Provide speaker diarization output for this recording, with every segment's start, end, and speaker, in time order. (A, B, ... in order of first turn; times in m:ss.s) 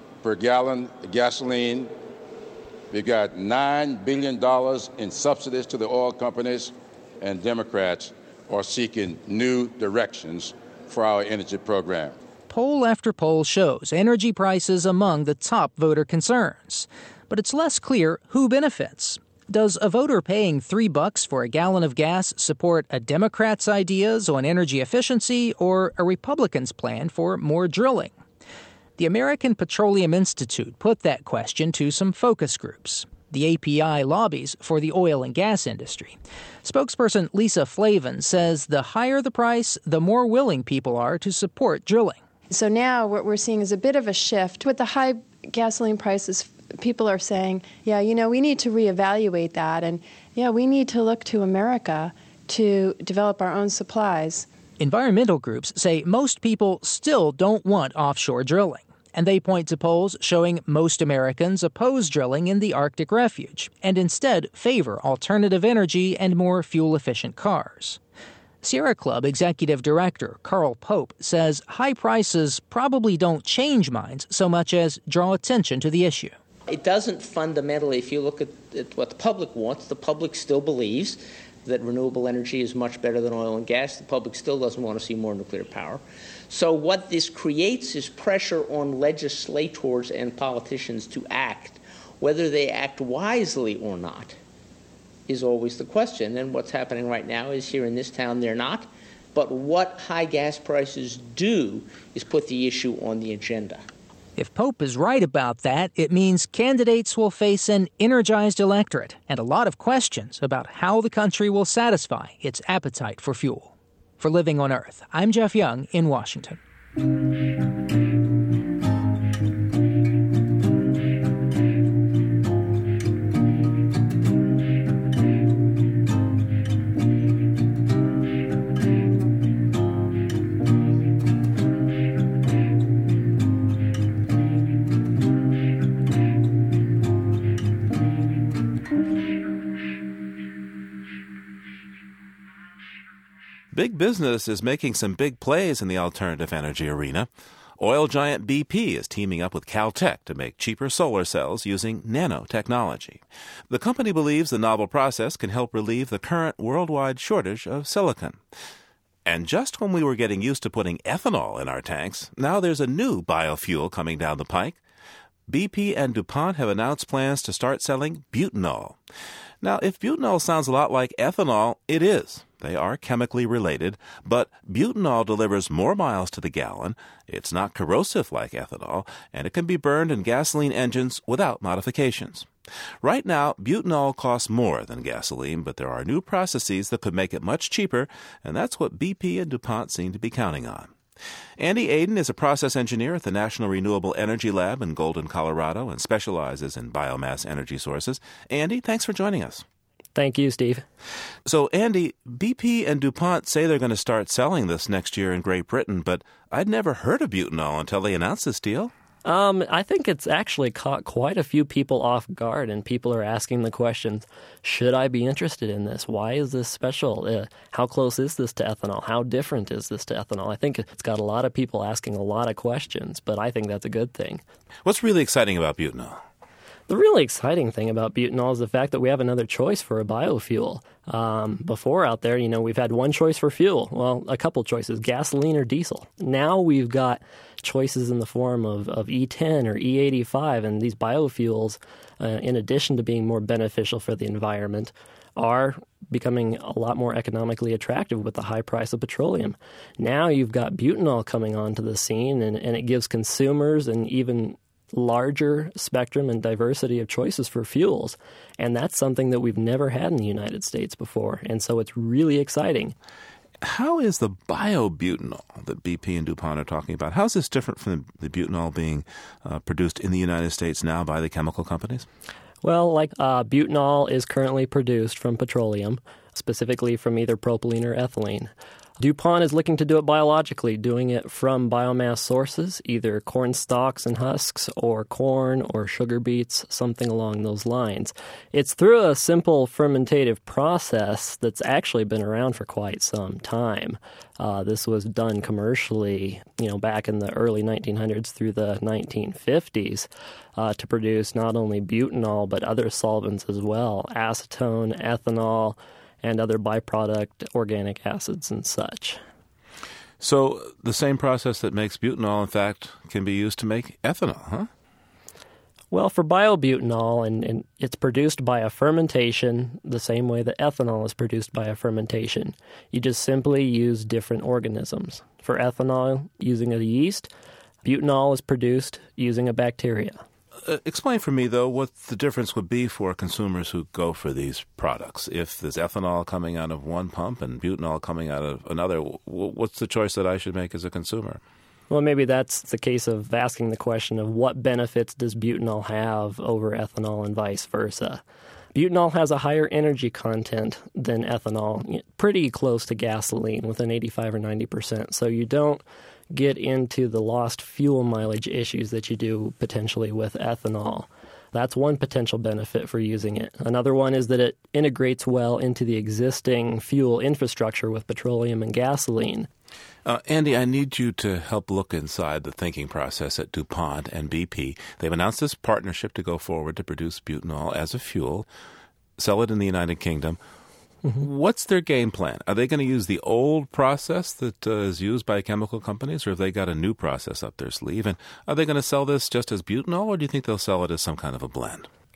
0:00.2-0:01.9 A
0:02.9-0:12.2 A
0:12.5-0:28.2 B
0:29.0-0:42.2 B
0:42.5-0:54.5 C
0:54.8-1:08.0 B
1:08.6-1:16.4 B
1:16.7-1:34.4 D
1:35.3-1:43.8 D
1:44.4-1:56.6 B
2:23.7-2:38.4 E
2:39.3-2:44.8 E
2:45.5-2:49.0 E
2:49.6-3:02.5 E
3:03.0-3:10.9 E
3:11.6-3:19.6 E
3:20.2-3:20.8 F
3:21.5-3:28.9 E
3:29.2-3:44.4 F
3:44.8-3:46.2 E
3:46.9-4:23.0 F
4:23.6-4:32.1 E
4:32.6-5:09.2 F
5:10.2-5:14.7 E
5:15.9-5:27.3 F
5:27.8-5:30.2 F
5:30.6-5:41.4 E
5:41.9-5:48.2 F
5:48.7-6:09.5 F
6:10.0-6:18.5 E
6:19.2-6:20.4 E
6:21.2-6:31.9 E